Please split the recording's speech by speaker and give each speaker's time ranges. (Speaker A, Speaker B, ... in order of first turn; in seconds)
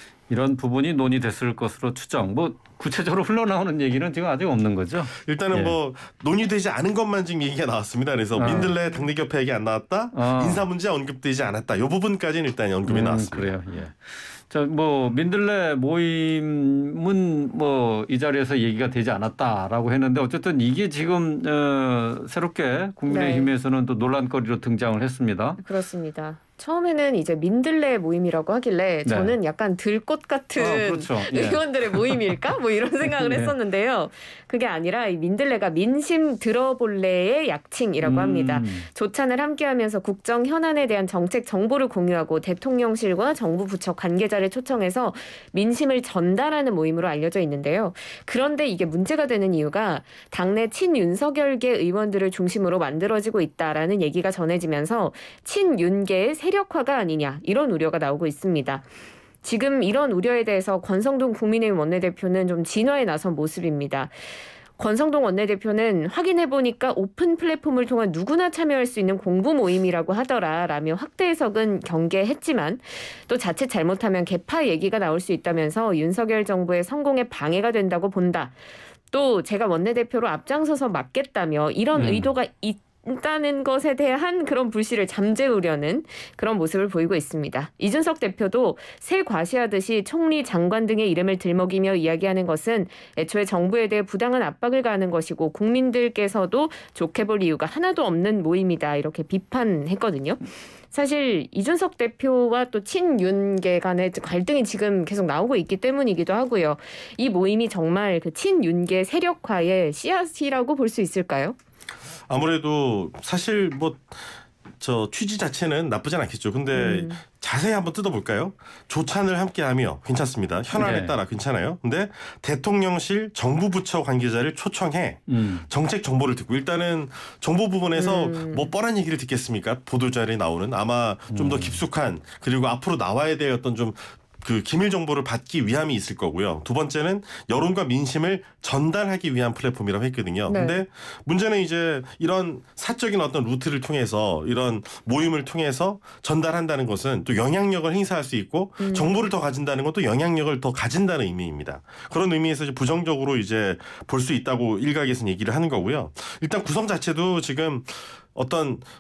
Speaker A: 0.3-5.8, 8.3-8.7, 10.1-10.7, 12.9-25.6, 29.1-29.4, 30.6-32.5, 33.1-33.5, 38.0-38.9, 81.9-82.3, 120.8-121.2, 125.3-125.7, 131.3-131.8
Speaker B: 5.2-13.5, 112.3-158.8
Speaker C: 8.4-9.1, 23.1-23.5, 25.6-58.9, 59.4-64.2, 64.8-78.6, 79.1-111.6, 116.7-117.2, 128.0-128.7, 140.5-140.8, 148.8-149.2